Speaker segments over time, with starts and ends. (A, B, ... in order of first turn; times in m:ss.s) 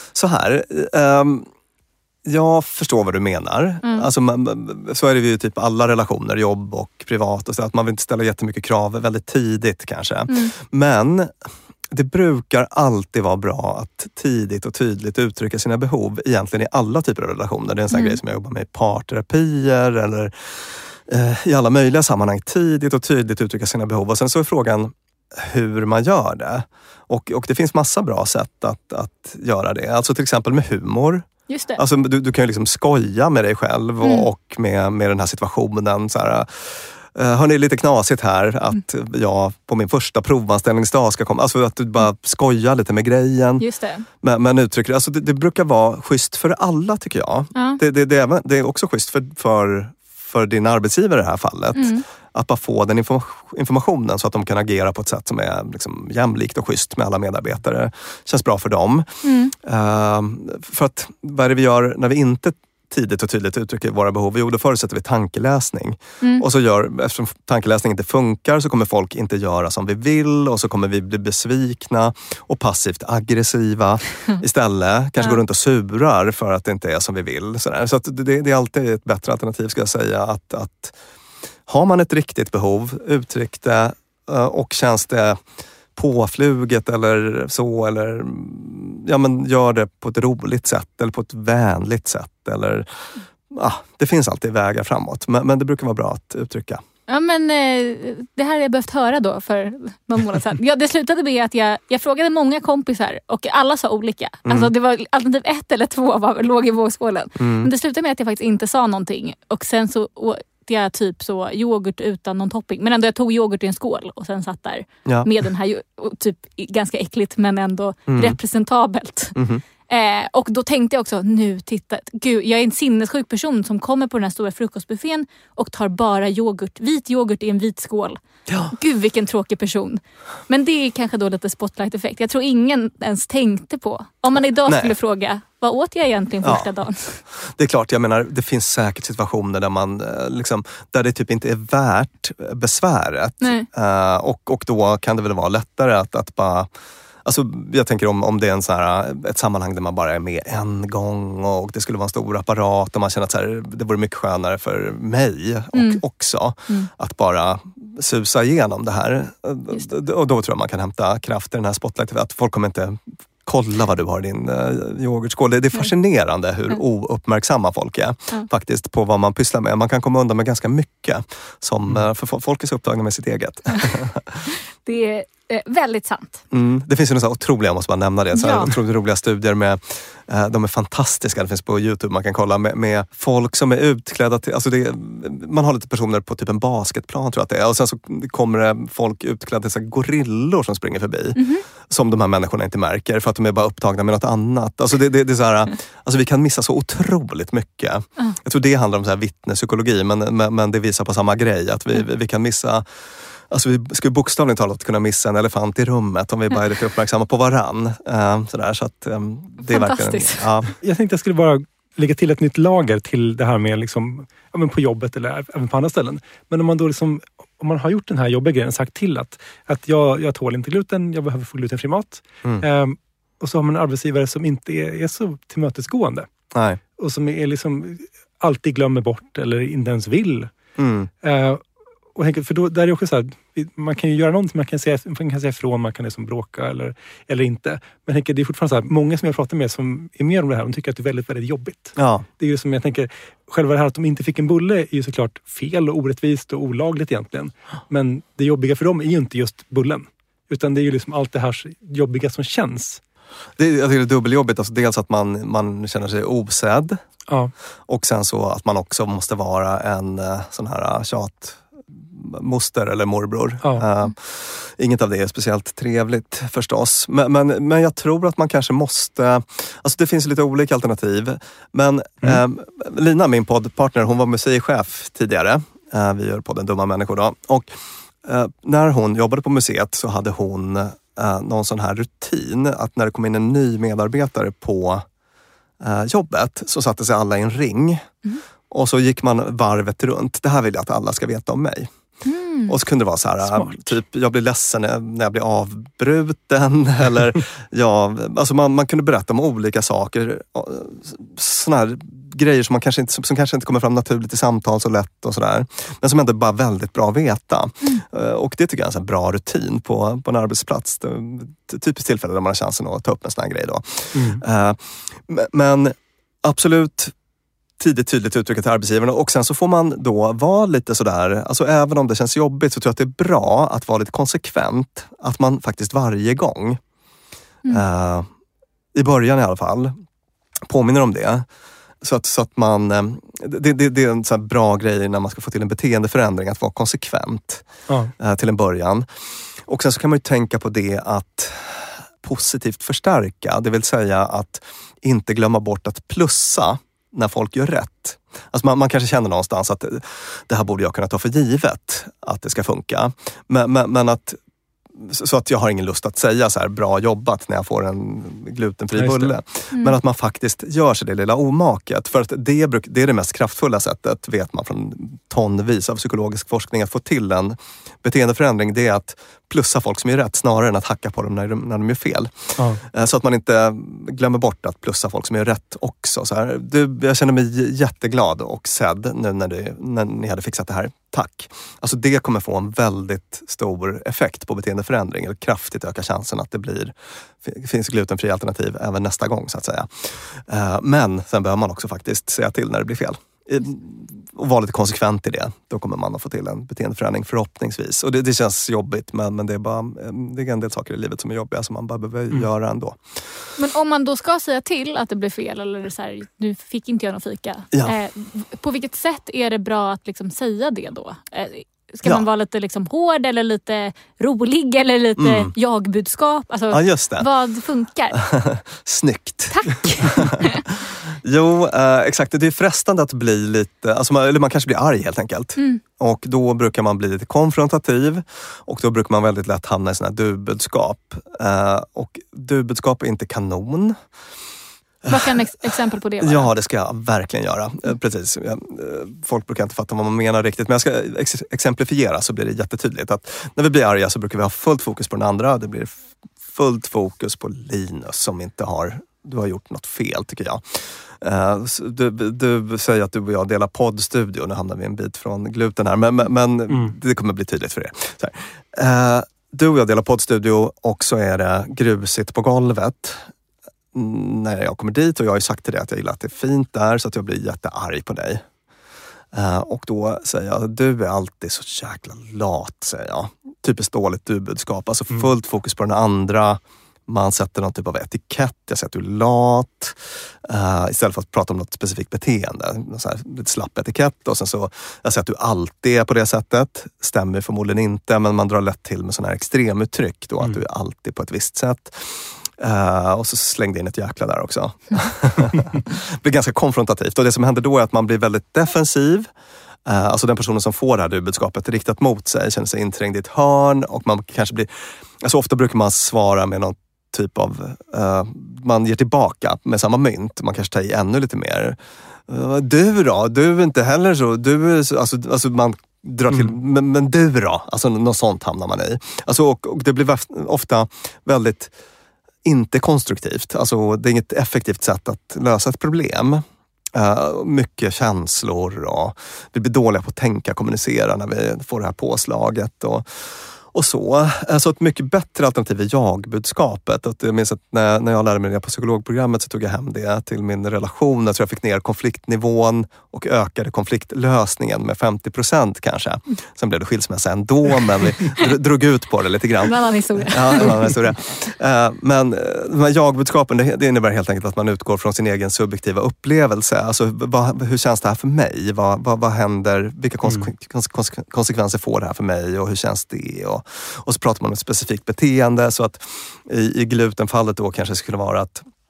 0:00.1-0:01.5 A
0:02.2-0:11.3 A
0:11.9-0:43.6 A
0:17.9-0:18.2 B
0:31.5-0:31.8 B
0:43.6-0:44.0 B
0:44.2-1:20.9 A
0:47.5-0:47.8 B
0:51.7-0:52.0 B
0:59.2-0:59.5 B
1:21.7-1:25.4 A
1:25.9-1:36.8 A
1:37.1-1:59.4 B
1:44.4-1:44.7 A
1:47.4-1:47.7 A
1:58.1-1:58.4 A
1:59.3-1:59.6 A
1:59.9-2:08.2 B
2:08.5-2:08.7 A
2:08.7-2:17.2 B
2:14.6-2:14.9 A
2:16.4-2:16.7 A
2:17.3-2:26.7 A
2:23.4-2:23.7 B
2:27.2-2:54.4 A
2:35.7-2:36.0 B
2:54.8-2:56.4 B
2:56.5-3:22.8 A
2:58.3-2:58.7 B
3:11.4-3:11.6 B
3:23.5-3:30.7 A
3:29.7-3:30.5 B
3:30.8-3:46.3 C
3:46.5-3:46.8 A
3:47.0-3:50.5 C
3:50.8-3:51.1 A
3:51.2-3:51.6 C
3:52.1-4:13.0 C
4:02.0-4:02.2 A
4:13.6-4:17.0 A
4:17.9-4:37.7 A
4:38.2-4:45.0 A
4:45.8-4:48.1 A
4:48.7-4:51.9 A
4:52.2-4:52.8 B
4:52.7-5:17.1 A
4:53.4-4:54.0 C
5:14.1-5:14.4 C
5:17.8-5:26.8 A
5:27.7-5:28.3 A
5:28.9-5:29.9 A
5:30.7-5:31.4 A
5:32.0-5:37.6 A
5:38.2-5:39.1 A
5:39.6-5:54.4 A
5:54.9-6:43.2 A
5:58.9-5:59.4 C
6:43.6-6:58.2 B
6:55.2-6:55.5 A
6:56.7-6:57.3 A
6:58.1-7:14.0 A
6:59.5-7:00.7 B
7:05.6-7:05.8 B
7:15.0-7:43.3 A
7:15.1-7:16.5 B
7:36.7-7:36.9 C
7:43.9-7:48.4 A
7:49.3-8:19.3 A
8:19.8-8:41.7 A
8:42.4-9:28.6 A
9:09.6-9:10.9 B